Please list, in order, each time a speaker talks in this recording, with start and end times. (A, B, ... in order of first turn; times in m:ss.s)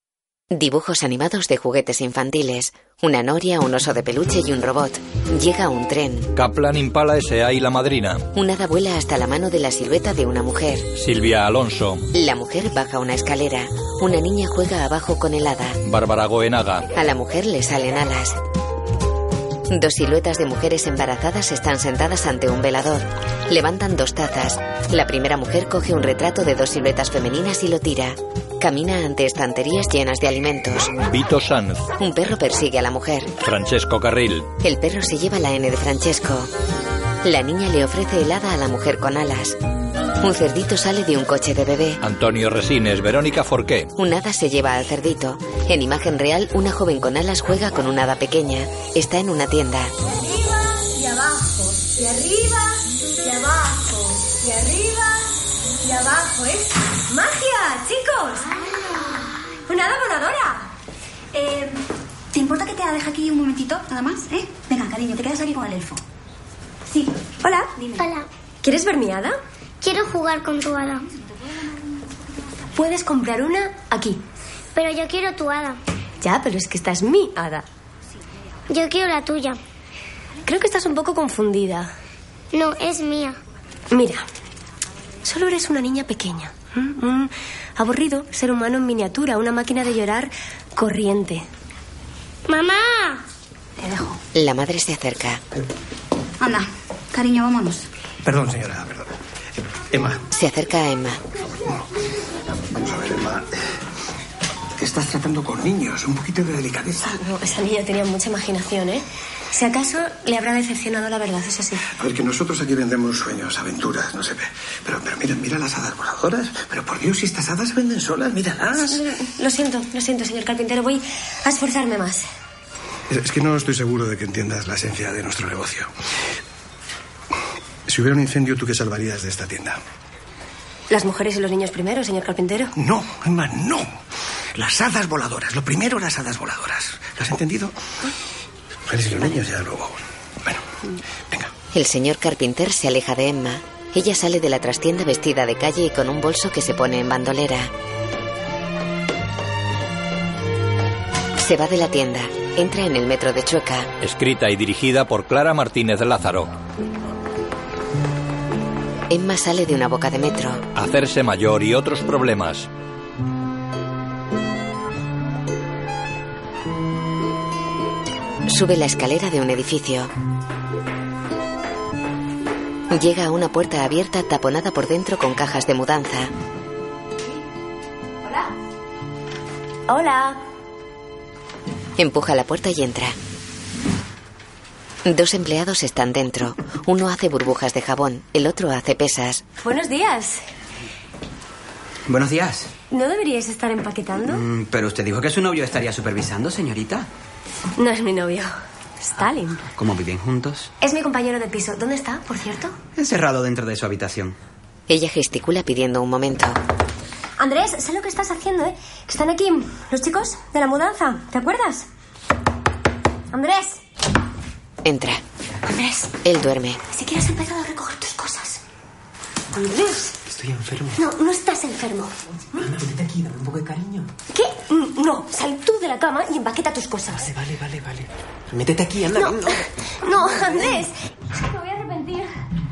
0:00.5-0:06.3 A
0:06.4-0:08.3 B
0:08.3-0:10.9 A
0:11.0-0:12.0 B
0:12.1-0:15.8 A
0:15.8-0:16.8 B
0:16.9-0:18.4 A
0:19.7-0:30.9 A
0:30.9-0:31.9 B
0:32.0-0:33.4 A
0:33.4-0:34.5 B
0:34.6-0:36.5 A
0:37.2-0:39.6 A
0:40.2-0:42.0 A
0:42.0-0:43.9 B
0:44.0-0:49.9 A
0:50.1-0:55.3 C
0:55.8-0:58.6 C
0:59.6-1:00.7 C
1:01.3-1:06.0 D
1:07.4-1:07.7 C
1:07.8-1:08.0 D
1:08.0-1:08.3 E
1:08.6-1:09.4 C
1:09.8-1:11.0 E
1:12.7-1:14.2 C
1:14.7-1:15.8 E
1:16.2-1:17.6 C
1:18.7-1:19.6 E
1:20.4-1:21.9 C
1:22.5-1:23.4 E
1:23.9-1:24.2 C
1:25.2-1:31.4 C
1:32.5-1:33.2 E
1:34.3-1:35.4 A
1:36.4-1:37.8 D
1:38.2-1:39.1 F
1:39.9-1:40.2 F
1:40.3-1:41.2 A
1:42.7-1:43.5 F
1:44.8-1:47.2 F
1:47.0-1:51.9 C
1:52.0-1:59.0 F
1:58.9-2:02.2 C
2:03.1-2:05.9 F
2:07.9-2:09.8 F
2:10.9-2:12.7 C
2:12.8-2:13.9 F
2:14.5-2:17.7 F
2:18.9-2:20.6 F
2:21.7-2:27.7 A
2:31.4-2:33.9 A
2:34.0-2:36.5 B
2:39.1-2:40.6 A
2:40.7-2:42.7 B
2:48.5-2:50.1 A
2:52.9-2:56.3 A
2:59.9-3:00.4 C
3:02.0-3:03.2 A
3:05.0-3:09.4 A
3:09.6-3:10.4 C
3:12.1-3:12.7 G
3:12.9-3:14.4 C
3:14.3-3:17.1 G
3:17.8-3:18.5 C
3:19.0-3:19.6 C
3:19.8-3:20.7 G
3:20.8-3:22.8 C
3:23.0-3:24.4 G
3:24.9-3:26.6 A
3:27.4-3:31.9 C
3:33.3-3:33.8 C
3:34.8-3:35.2 A
3:36.2-3:36.8 A
3:37.0-3:38.6 C
3:39.5-3:40.2 C
3:40.9-3:42.6 C
3:44.3-3:47.3 C
3:49.1-3:52.3 C